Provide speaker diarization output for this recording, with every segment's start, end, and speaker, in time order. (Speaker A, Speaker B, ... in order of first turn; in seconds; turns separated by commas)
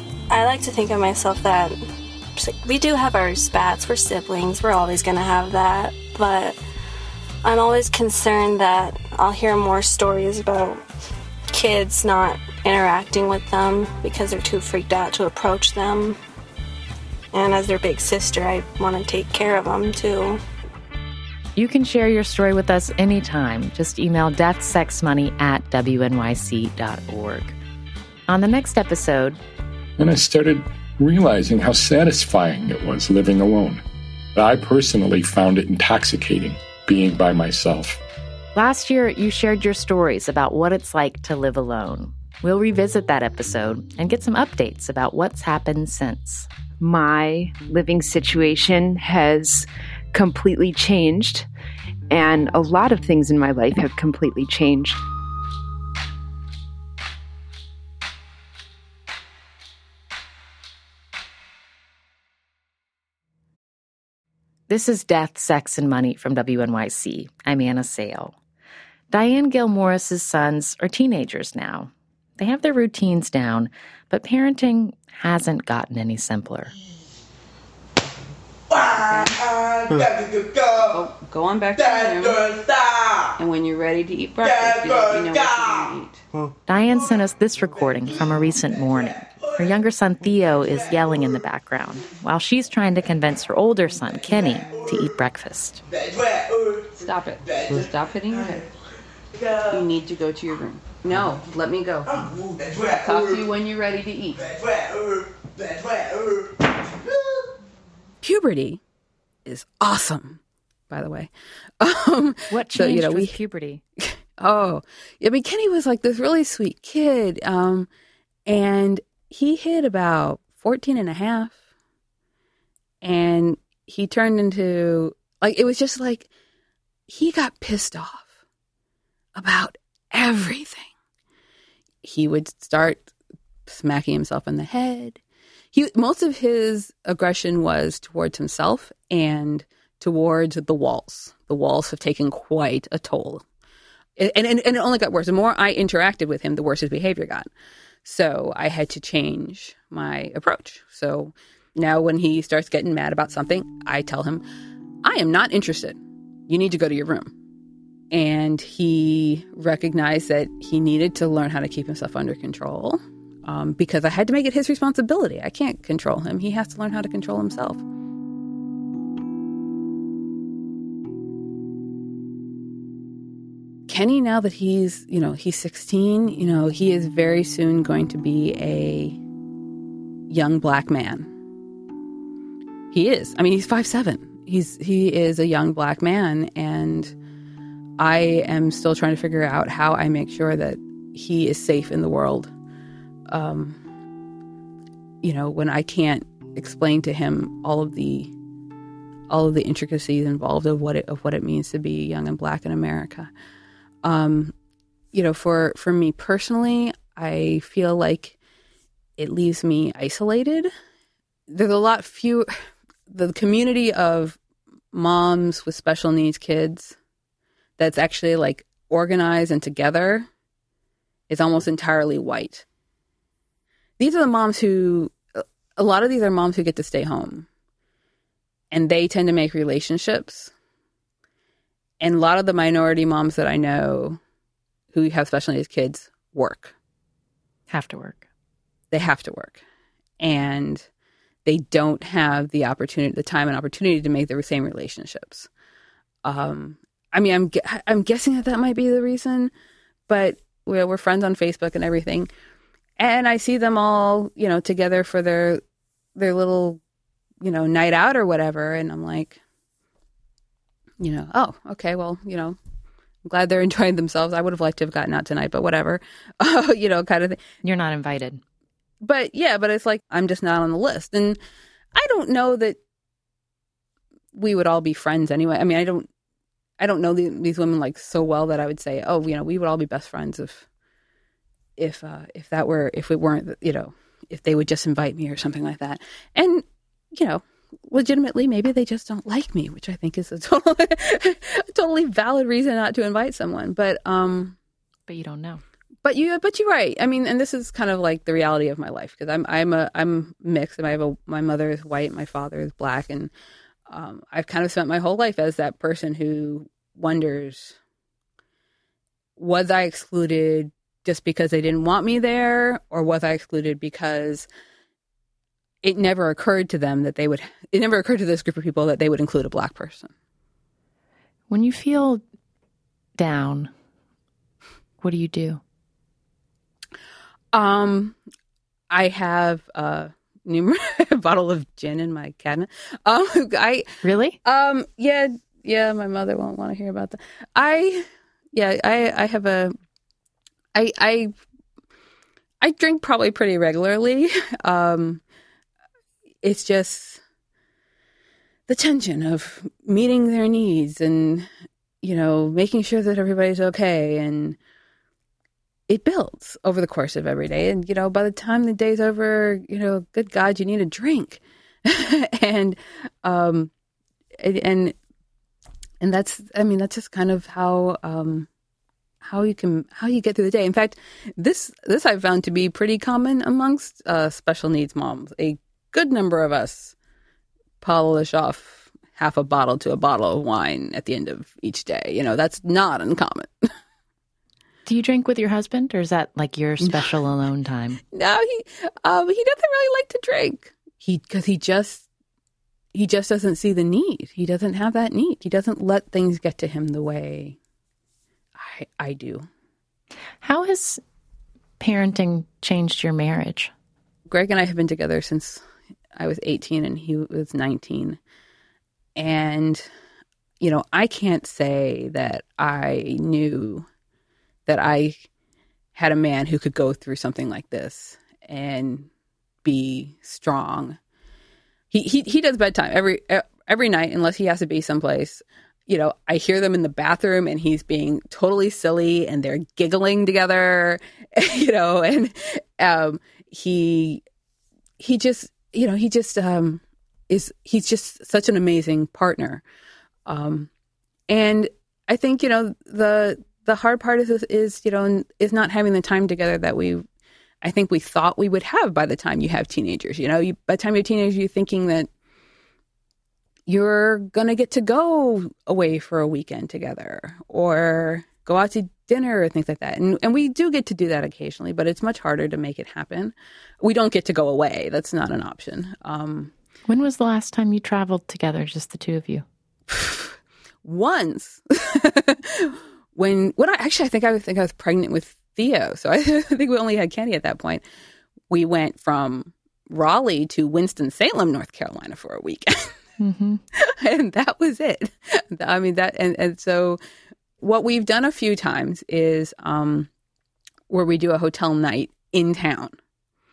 Speaker A: 0.3-6.6, Speaker A: 7.4-10.8, Speaker A: 11.5-16.2, Speaker A: 17.3-20.4, Speaker B: 21.6-27.6, Speaker B: 28.3-29.4, Speaker C: 30.0-33.8, Speaker C: 34.3-38.0, Speaker B: 38.5-46.5, Speaker D: 46.8-51.5, Speaker D: 52.1-55.0, Speaker B: 64.7-68.3, Speaker B: 69.1-76.7, Speaker E: 78.7-79.8, Speaker E: 80.8-82.6, Speaker E: 83.4-86.2, Speaker B: 86.7-95.8, Speaker E: 97.0-98.7, Speaker E: 99.5-104.6, Speaker E: 108.2-108.8, Speaker E: 109.5-113.3, Speaker B: 112.5-113.8, Speaker E: 114.0-117.9, Speaker E: 118.5-121.5, Speaker E: 123.0-126.3, Speaker E: 127.1-128.3, Speaker E: 129.3-130.9, Speaker E: 132.0-133.1, Speaker E: 133.7-135.2, Speaker E: 135.7-143.4, Speaker E: 144.2-147.5, Speaker E: 148.0-154.4, Speaker E: 155.0-157.3, Speaker E: 158.1-167.8, Speaker E: 173.9-179.2, Speaker E: 180.3-181.3, Speaker E: 182.9-187.1, Speaker E: 188.0-192.5, Speaker E: 193.3-193.8, Speaker E: 195.2-198.3, Speaker E: 199.3-203.3, Speaker E: 204.0-204.5, Speaker E: 205.1-208.3, Speaker E: 209.2-210.7, Speaker E: 211.5-212.5, Speaker E: 213.1-214.4, Speaker E: 214.9-216.9, Speaker E: 217.8-220.3, Speaker E: 221.3-222.6, Speaker E: 224.0-227.5, Speaker E: 228.7-230.5, Speaker E: 232.0-234.2, Speaker E: 234.9-236.7, Speaker B: 237.7-238.2, Speaker E: 238.9-239.6, Speaker E: 240.2-240.8, Speaker E: 241.4-245.5, Speaker E: 246.2-249.5, Speaker E: 250.1-252.3, Speaker E: 253.0-255.6, Speaker E: 256.1-256.8, Speaker E: 257.4-259.4, Speaker E: 261.0-262.6, Speaker E: 263.2-267.4, Speaker B: 267.6-268.4, Speaker E: 269.0-271.4, Speaker E: 271.9-272.8, Speaker E: 274.3-276.1, Speaker E: 276.8-280.6, Speaker E: 281.8-294.6, Speaker B: 295.1-295.6, Speaker E: 296.0-303.3, Speaker E: 303.9-307.8, Speaker E: 309.4-314.5, Speaker E: 315.8-320.1, Speaker B: 321.5-322.2, Speaker B: 323.2-323.7, Speaker B: 325.0-325.6, Speaker E: 327.5-328.2, Speaker E: 328.9-333.9, Speaker B: 334.0-334.4, Speaker E: 334.4-339.7, Speaker E: 340.7-341.3, Speaker E: 342.6-345.2, Speaker E: 346.4-347.2, Speaker E: 348.7-351.5, Speaker E: 352.0-354.6, Speaker E: 355.9-363.7, Speaker E: 364.4-364.9, Speaker E: 366.0-368.5, Speaker E: 369.2-376.9, Speaker E: 377.8-383.7, Speaker B: 384.9-388.0, Speaker E: 388.1-392.1, Speaker E: 392.9-397.6, Speaker E: 398.6-399.5, Speaker B: 400.4-401.0, Speaker B: 401.8-403.7, Speaker E: 404.3-405.6, Speaker E: 406.1-408.2, Speaker E: 409.1-409.9, Speaker E: 410.6-413.9, Speaker E: 414.7-415.3, Speaker E: 415.9-419.1, Speaker E: 419.6-421.0, Speaker E: 421.9-434.2, Speaker E: 435.0-439.6, Speaker E: 440.2-440.7, Speaker E: 441.3-447.0, Speaker E: 447.6-452.1, Speaker E: 453.7-466.5, Speaker B: 466.9-469.4, Speaker E: 469.9-477.8, Speaker E: 478.5-482.9, Speaker B: 483.2-483.6, Speaker E: 483.7-487.0, Speaker E: 487.6-490.1, Speaker E: 490.9-492.9